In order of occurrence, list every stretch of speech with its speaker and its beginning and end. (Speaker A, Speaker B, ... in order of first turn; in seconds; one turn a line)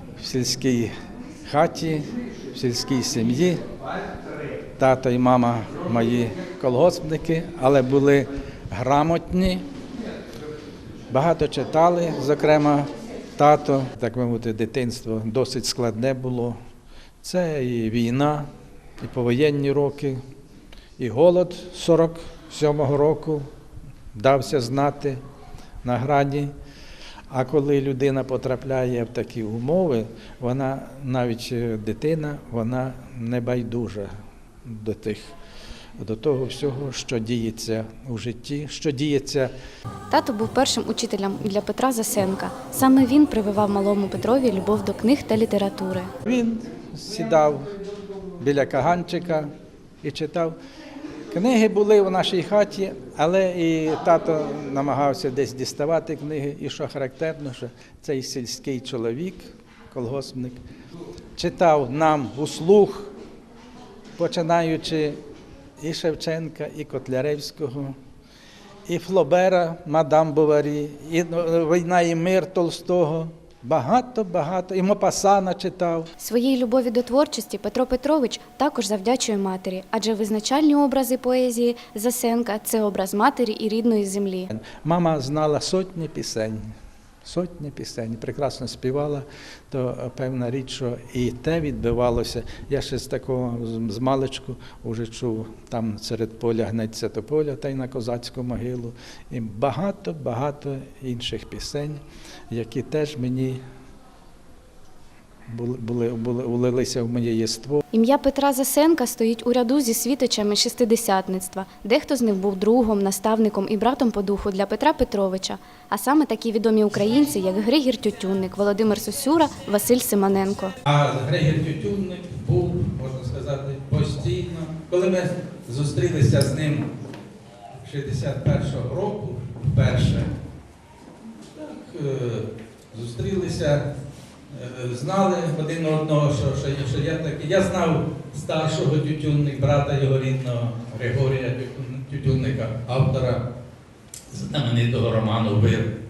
Speaker A: 0.2-0.9
Speaker A: 1.5-3.6
Speaker A: 4.8-9.7
Speaker A: 11.1-16.6
Speaker A: 17.2-18.5
Speaker A: 19.0-20.2
Speaker A: 21.0-23.4
Speaker A: 24.1-25.2
Speaker A: 25.8-26.5
Speaker A: 27.3-34.1
Speaker A: 34.7-35.2
Speaker A: 36.0-39.5
Speaker B: 40.1-46.1
Speaker A: 46.3-47.7
Speaker A: 48.4-49.5
Speaker A: 50.0-50.6
Speaker A: 51.3-60.6
Speaker A: 61.4-63.1
Speaker A: 64.2-65.2
Speaker A: 65.8-68.0
Speaker A: 68.9-76.1
Speaker B: 76.2-84.5
Speaker A: 84.5-86.6
Speaker A: 87.2-102.0
Speaker A: 102.5-103.6
Speaker A: 105.5-107.8
Speaker B: 107.9-120.7
Speaker A: 120.9-126.9
Speaker A: 127.8-130.3
Speaker A: 131.5-133.8
Speaker A: 134.5-143.4
Speaker A: 144.3-145.9